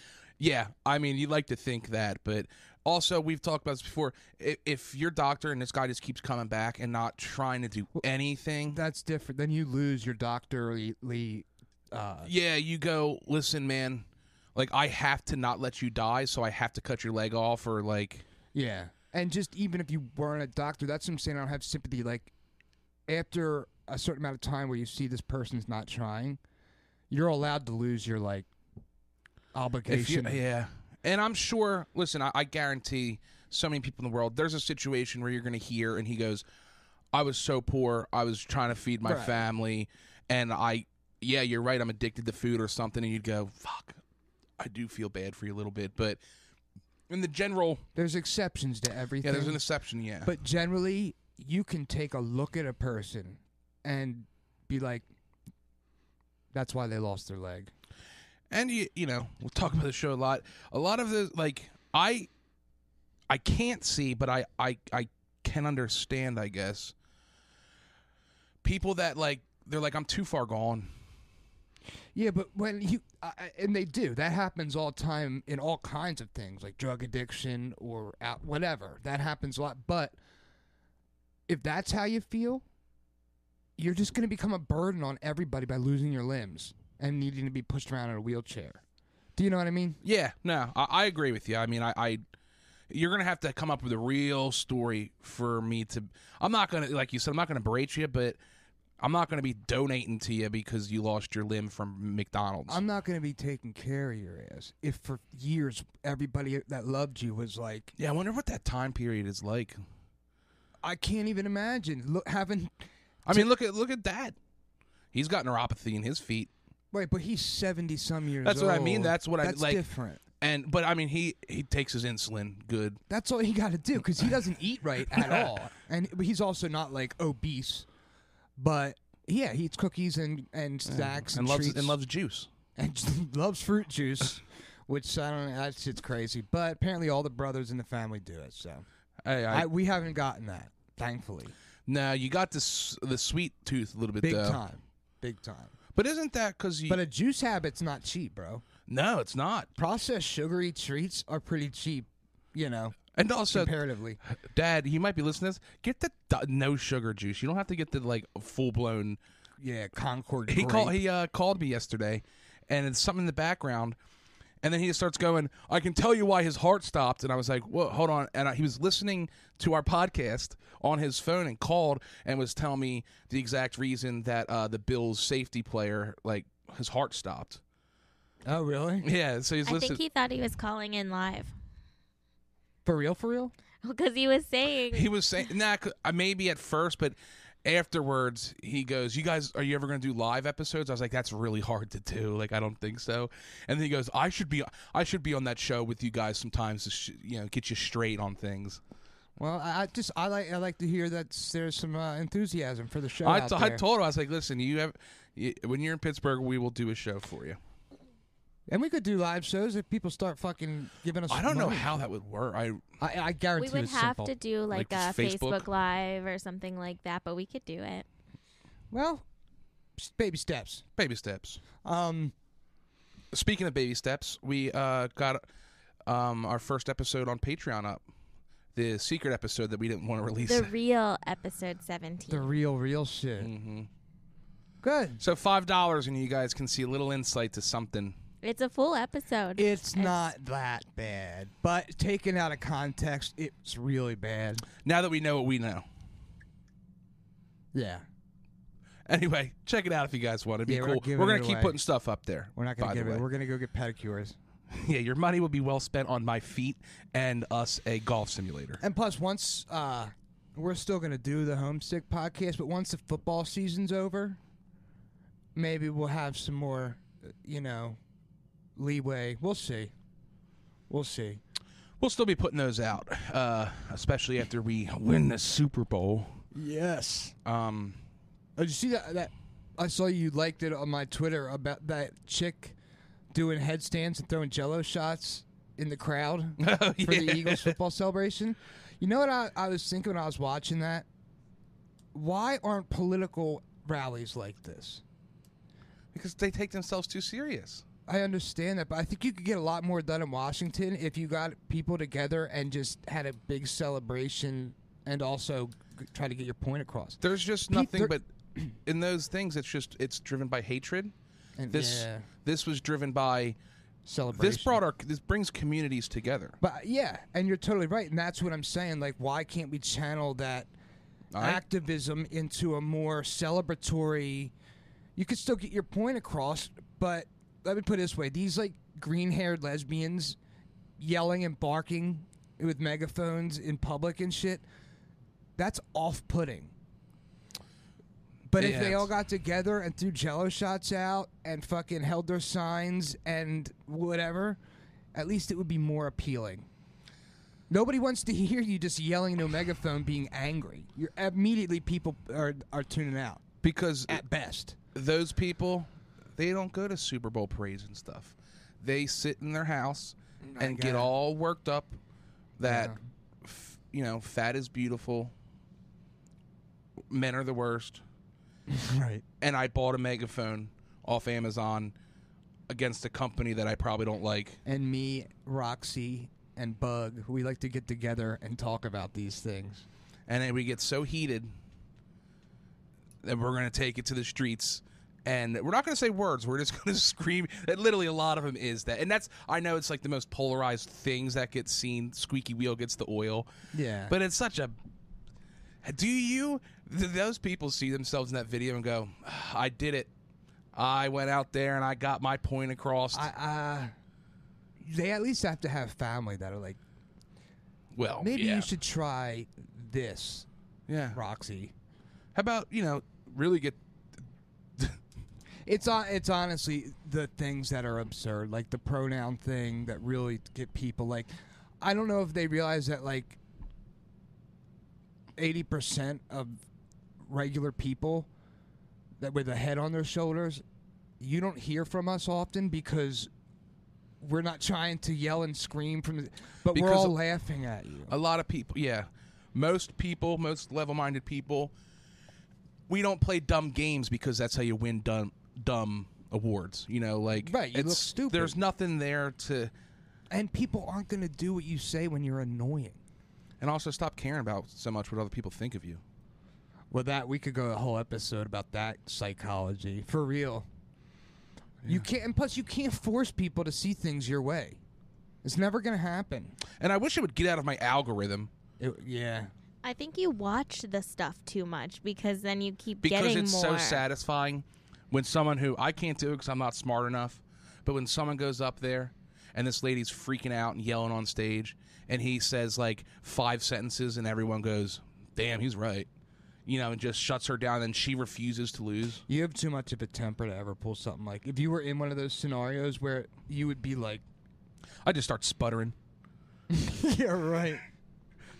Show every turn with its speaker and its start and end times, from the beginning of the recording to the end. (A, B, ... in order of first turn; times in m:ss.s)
0:00.4-0:08.8 A
0:08.7-0:12.3 B
0:12.2-0:18.2 A
0:18.5-0:22.3 B
0:23.1-0:26.4 B
0:27.1-0:28.5 B
0:29.5-0:30.4 B
0:29.9-0:36.4 A
0:37.1-0:44.0 A
0:39.0-0:39.4 B
0:44.6-0:46.2 A
0:47.1-0:47.8 A
0:47.9-0:49.6 B
0:49.2-0:50.3 A
0:50.2-0:55.1 B
0:56.5-0:57.7 B
0:58.5-1:02.3 A
1:03.3-1:06.9 A
1:08.6-1:10.9 A
1:12.1-1:20.2 B
1:21.5-1:22.6 B
1:23.8-1:28.8 B
1:29.4-1:30.0 B
1:30.0-1:32.2 A
1:32.9-1:38.4 A
1:39.0-1:42.8 A
1:42.7-1:47.9 B
1:48.0-1:49.8 A
1:50.8-1:53.5 B
1:53.2-1:54.4 A
1:55.1-1:56.5 A
1:56.9-2:00.2 B
1:58.4-1:59.8 A
2:00.4-2:03.0 A
2:03.1-2:07.9 B
2:05.2-2:05.5 A
2:08.6-2:12.0 B
2:10.8-2:12.5 A
2:12.8-2:18.8 B
2:19.2-2:19.7 A
2:19.5-2:21.5 B
2:21.9-2:24.6 A
2:24.2-2:25.7 B
2:25.9-2:27.0 A
2:26.9-2:28.6 B
2:28.9-2:29.7 A
2:29.8-2:33.0 B
2:33.1-2:33.7 A
2:33.5-2:34.2 B
2:34.3-2:39.2 A
2:39.6-2:41.0 B
2:40.5-2:44.0 A
2:44.6-2:57.6 A
2:58.4-2:59.0 B
2:59.0-3:00.0 A
2:59.6-3:01.5 C
3:02.8-3:03.5 B
3:03.8-3:05.1 C
3:04.9-3:18.8 A
3:19.4-3:23.8 B
3:23.2-3:27.6 A
3:28.7-3:32.0 B
3:31.3-3:32.8 A
3:33.0-3:34.3 B
3:33.6-3:38.0 C
3:34.7-3:35.7 A
3:38.9-3:39.2 B
3:40.0-3:40.8 B
3:41.0-3:41.6 A
3:41.8-3:42.3 B
3:43.3-3:45.4 A
3:46.1-3:48.0 A
3:48.7-3:50.7 A
3:50.4-3:52.5 C
3:52.3-3:53.5 B
3:53.4-3:53.9 A
3:54.8-3:55.2 B
3:55.2-3:58.2 A
3:58.4-4:00.3 C
3:59.6-4:04.6 B
4:04.8-4:05.9 A
4:07.7-4:08.0 B
4:09.1-4:13.2 A
4:10.6-4:11.8 B
4:12.6-4:14.4 B
4:14.7-4:18.8 A
4:18.8-4:24.4 B
4:25.5-4:28.0 B
4:28.8-4:29.9 B
4:30.9-4:31.4 B
4:32.0-4:36.4 A
4:36.5-4:37.4 B
4:37.4-4:38.0 A
4:38.6-4:42.8 B
4:43.3-4:51.0 B
4:46.6-4:47.8 A
4:52.1-4:55.0 B
4:56.1-4:57.8 A
4:58.1-5:08.6 B
5:07.2-5:08.2 A
5:08.8-5:11.1 A
5:11.6-5:12.3 B
5:11.7-5:13.6 A
5:14.0-5:14.8 B
5:14.3-5:16.6 A
5:16.6-5:20.7 B
5:21.3-5:21.6 A
5:21.4-5:24.5 B
5:25.2-5:30.4 B
5:31.0-5:34.6 B
5:35.6-5:36.7 B
5:38.5-5:44.6 B
5:38.6-5:39.1 A
5:45.1-5:46.7 B
5:47.7-5:53.4 B
5:53.6-5:54.2 A
5:54.1-5:54.8 B
5:54.9-6:02.0 A
6:00.4-6:01.1 B
6:02.6-6:05.3 A
6:02.6-6:03.0 B
6:07.1-6:08.0 A
6:08.7-6:09.2 B
6:09.4-6:11.9 A
6:12.7-6:14.6 A
6:14.6-6:19.8 B
6:20.3-6:21.5 A
6:23.2-6:33.5 A
6:33.7-6:34.1 B
6:34.1-6:34.8 A
6:35.8-6:40.1 A
6:40.7-6:43.3 A
6:43.1-6:43.9 B
6:44.8-6:46.8 B
6:47.9-6:48.7 A
6:48.2-6:50.5 B
6:50.9-6:51.2 A
6:51.1-6:51.7 B
6:52.3-6:53.8 A
6:55.6-7:03.4 B
7:05.4-7:06.6 B
7:07.2-7:08.3 B
7:09.2-7:10.6 B
7:11.2-7:13.3 B
7:14.2-7:18.1 B
7:16.7-7:17.2 A
7:18.1-7:21.7 A
7:22.9-7:29.7 A
7:27.4-7:28.6 B
7:30.3-7:33.0 B
7:33.6-7:36.0 A
7:36.9-7:40.7 B
7:41.9-7:44.8 B
7:45.4-7:46.6 B
7:46.8-7:48.5 A
7:48.8-7:49.5 B
7:49.8-7:54.0 C
7:53.0-8:06.1 A
8:06.6-8:09.2 A
8:09.3-8:14.2 B
8:15.0-8:16.0 A
8:16.7-8:17.8 B